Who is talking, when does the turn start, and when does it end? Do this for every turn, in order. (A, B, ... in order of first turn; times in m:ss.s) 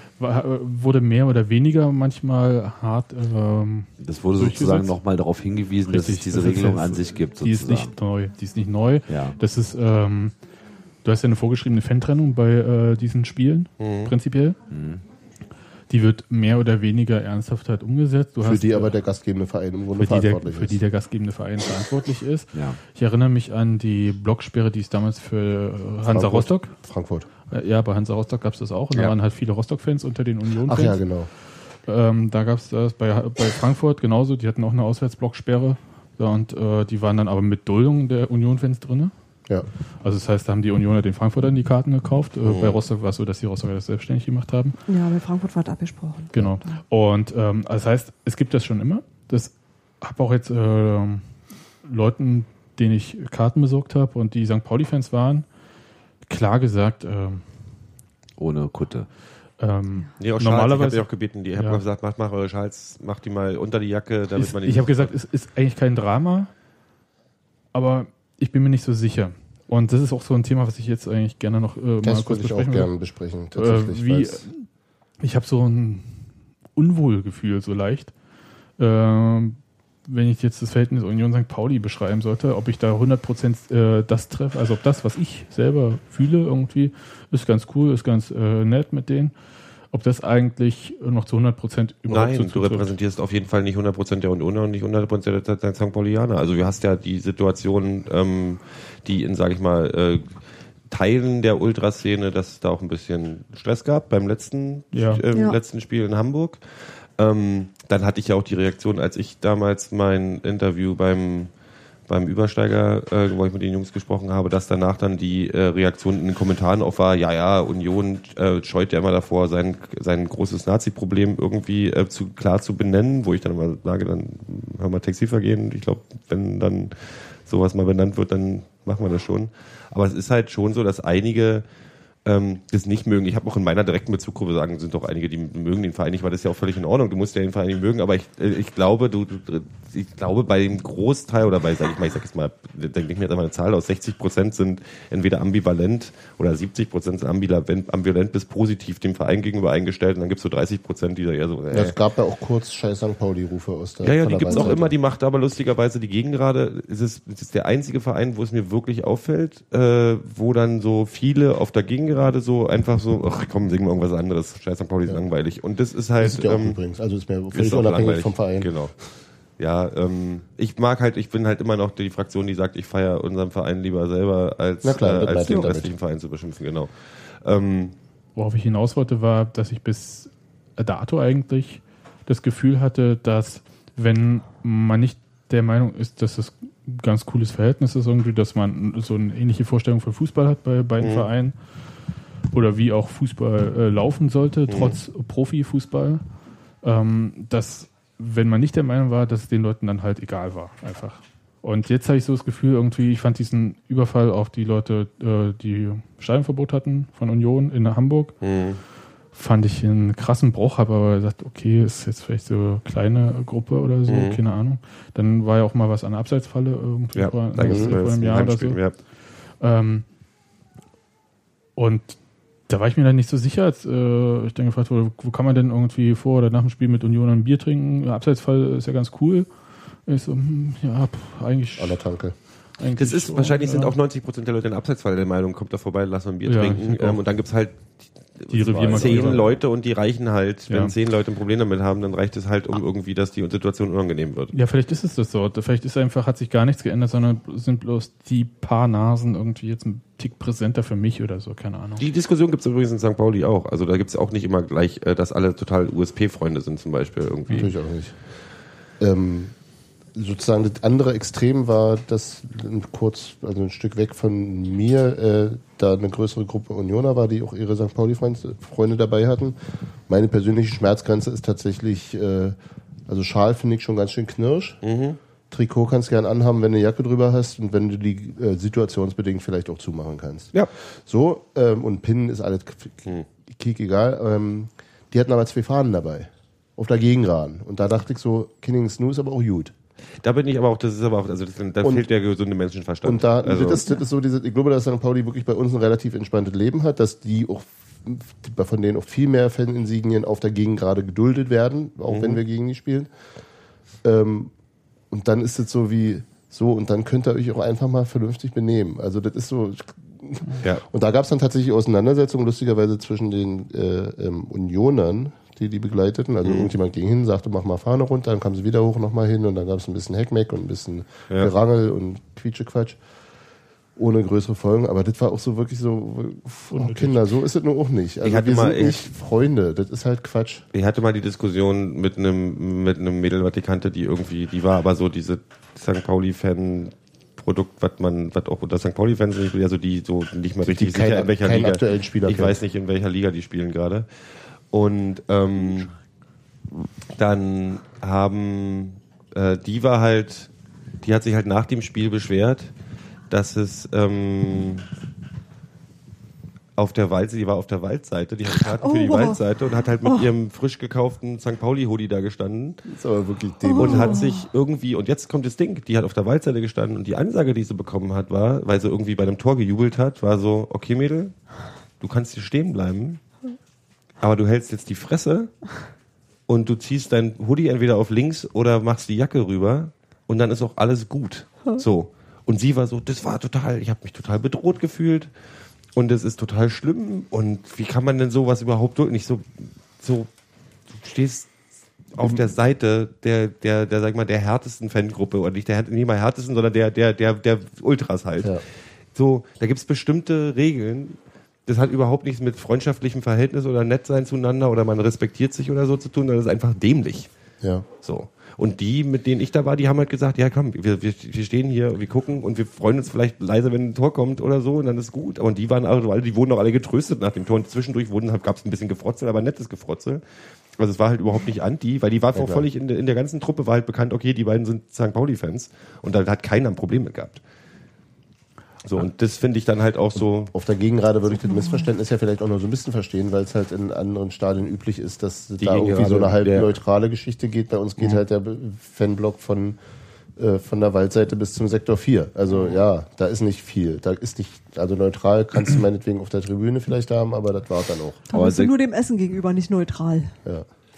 0:00.2-0:05.0 A
0:04.0-0:07.9 B
0:05.9-0:10.3 A
0:09.1-0:09.4 B
0:11.0-0:14.6 A
0:13.8-0:14.1 C
0:14.7-0:15.0 B
0:15.9-0:19.0 A
0:18.4-0:20.8 D
0:20.0-0:26.7 A
0:22.5-0:22.8 B
0:26.0-0:27.3 D
0:27.5-0:31.0 A
0:30.6-0:31.3 D
0:31.8-0:39.1 A
0:40.0-0:44.8 A
0:42.4-0:42.8 C
0:44.9-0:46.8 E
0:46.3-0:51.2 A
0:51.8-0:55.4 A
0:56.3-0:57.4 A
0:58.4-0:59.1 B
0:59.6-1:01.8 A
1:00.2-1:05.1 C
1:04.4-1:06.5 A
1:07.7-1:12.9 A
1:12.0-1:14.5 D
1:13.6-1:14.6 A
1:15.2-1:16.1 A
1:16.8-1:18.1 A
1:18.8-1:29.3 A
1:29.9-1:32.9 A
1:32.1-1:40.2 C
1:40.9-1:51.5 C
1:44.9-1:45.2 A
1:45.3-1:45.6 E
1:52.1-2:11.6 C
2:12.2-2:32.0 C
2:31.7-2:34.9 D
2:34.0-2:46.8 C
2:46.2-2:48.7 D
2:47.5-2:48.9 C
2:49.6-2:57.9 C
2:54.8-2:55.9 D
2:58.4-3:11.6 A
3:11.0-3:11.3 C
3:12.5-3:16.2 A
3:14.7-3:15.0 C
3:16.8-3:28.3 A
3:28.4-3:28.8 C
3:29.3-3:38.8 A
3:34.1-3:34.4 C
3:37.1-3:38.9 C
3:37.6-3:37.9 D
3:39.6-3:40.0 A
3:41.8-3:42.2 A
3:42.7-3:49.5 A
3:50.1-3:52.0 A
3:51.8-3:52.3 D
3:52.8-3:53.9 A
3:53.0-4:04.5 C
3:56.4-3:57.2 A
3:58.5-3:59.4 A
4:00.7-4:00.9 A
4:04.5-4:12.0 A
4:12.0-4:17.7 C
4:17.5-4:18.2 D
4:19.0-4:19.5 D
4:20.1-4:29.6 D
4:30.1-4:32.6 D
4:33.1-4:34.8 D
4:34.8-4:35.2 C
4:35.5-4:40.5 D
4:41.0-4:49.7 D
4:50.2-4:53.8 C
4:53.0-5:03.1 D
5:02.1-5:02.4 C
5:04.0-5:04.5 D
5:05.1-5:23.0 D
5:16.4-5:16.7 C
5:24.0-5:30.6 D
5:26.7-5:27.2 A
5:28.2-5:29.1 C
5:30.7-5:44.0 C
5:40.6-5:42.6 D
5:44.7-5:45.9 C
5:47.2-5:50.5 C
5:51.0-5:52.7 C
5:53.3-5:54.9 C
5:56.8-6:02.8 C
5:58.6-5:59.4 E
6:02.8-6:04.2 D
6:03.6-6:04.4 E
6:03.8-6:11.3 C
6:12.0-6:13.2 C
6:14.2-6:15.5 C
6:16.5-6:25.3 C
6:25.9-6:30.3 C
6:30.9-6:31.5 C
6:32.1-6:38.6 C
6:39.1-6:47.3 C
6:47.6-6:47.8 D
6:48.0-7:00.2 C
7:00.8-7:07.4 C
7:02.3-7:02.6 D
7:08.8-7:10.5 C
7:10.5-7:19.8 D
7:15.6-7:16.7 C
7:20.4-7:28.2 D
7:28.3-7:30.3 E
7:28.3-7:28.8 B